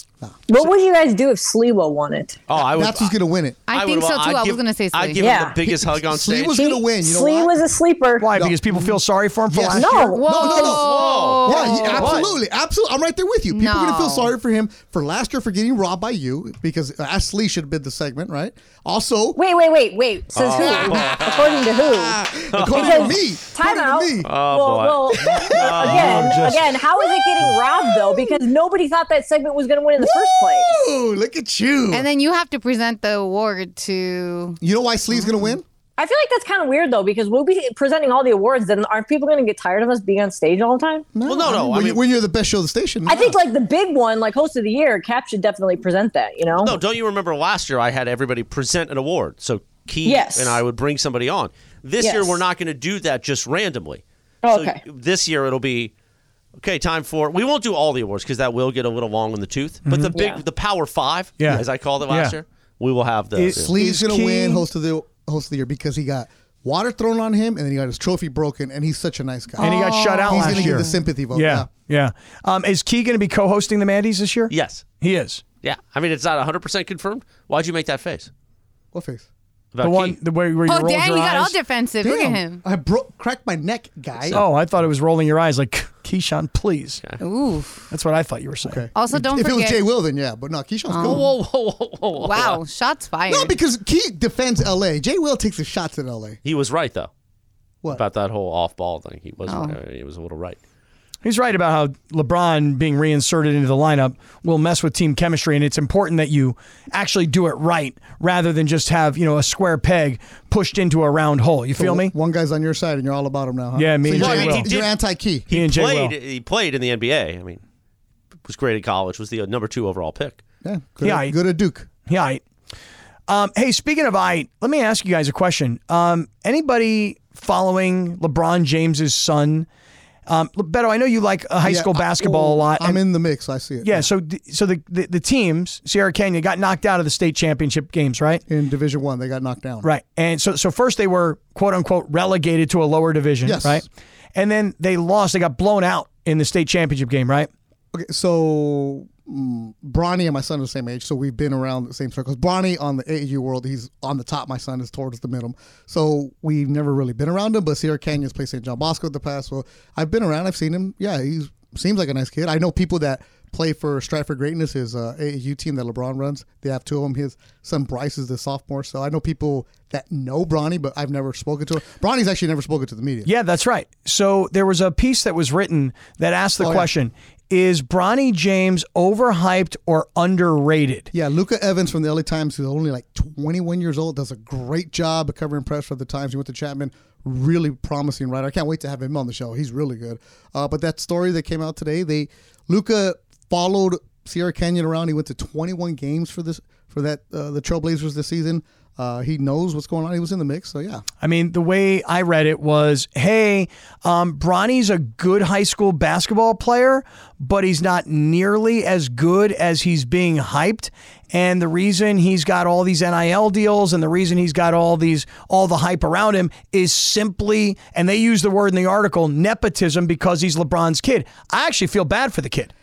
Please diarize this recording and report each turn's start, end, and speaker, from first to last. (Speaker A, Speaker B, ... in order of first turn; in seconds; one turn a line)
Speaker A: 0.5-2.4
Speaker B: 2.5-3.1
Speaker C: 2.6-3.6
Speaker D: 3.7-5.2
Speaker B: 3.7-6.6
Speaker A: 5.2-5.6
Speaker C: 5.7-7.5
Speaker A: 6.5-8.3
Speaker E: 8.2-9.9
Speaker C: 8.3-9.0
Speaker C: 9.5-19.4
Speaker A: 9.7-11.0
Speaker D: 9.9-12.2
Speaker B: 10.6-12.3
Speaker D: 13.5-14.3
Speaker A: 19.4-30.7
Speaker B: 20.3-23.2
Speaker C: 20.5-21.4
Speaker C: 22.2-24.3
Speaker B: 24.2-26.6
Speaker C: 25.2-28.4
Speaker C: 30.0-32.1
Speaker D: 31.9-34.6
Speaker C: 34.6-35.6
Speaker A: 36.0-41.1
Speaker C: 41.1-43.4
Speaker B: 41.2-42.0
Speaker A: 43.0-46.8
Speaker B: 46.6-55.9
Speaker A: 50.0-50.6
Speaker A: 52.0-52.4
Speaker A: 54.4-54.8
Speaker B: 56.6-63.7
Speaker A: 60.1-60.4
Speaker E: 61.4-62.3
Speaker E: 63.4-64.6
Speaker C: 63.5-71.7
Speaker D: 69.5-71.0
Speaker E: 69.6-75.4
Speaker B: 74.5-74.8
Speaker B: 75.6-78.3
Speaker C: 78.9-79.3
Speaker B: 79.7-80.2
Speaker E: 79.8-81.5
Speaker D: 80.7-82.6
Speaker C: 82.0-84.4
Speaker E: 84.3-87.0
Speaker D: 87.2-87.9
Speaker E: 87.9-88.8
Speaker C: 88.6-91.2
Speaker D: 88.9-89.8
Speaker D: 90.9-91.3
Speaker B: 91.0-92.6
Speaker D: 92.1-93.5
Speaker C: 93.3-96.4
Speaker B: 96.4-97.1
Speaker B: 97.9-100.6
Speaker D: 99.5-99.8
Speaker E: 101.2-112.1
Speaker C: 111.8-115.5
Speaker E: 113.8-114.7
Speaker B: 114.1-117.6
Speaker E: 115.5-116.1
Speaker B: 118.5-120.4
Speaker C: 120.6-121.9
Speaker E: 121.0-121.3
Speaker E: 122.0-122.4
Speaker E: 123.3-129.7
Speaker E: 130.3-133.0
Speaker C: 131.6-134.1
Speaker E: 133.8-138.4
Speaker C: 138.5-139.9
Speaker E: 139.8-147.5
Speaker C: 143.4-143.8
Speaker C: 147.9-173.3
Speaker E: 173.2-181.1
Speaker C: 176.6-176.9
Speaker C: 181.1-201.0
Speaker E: 201.2-222.7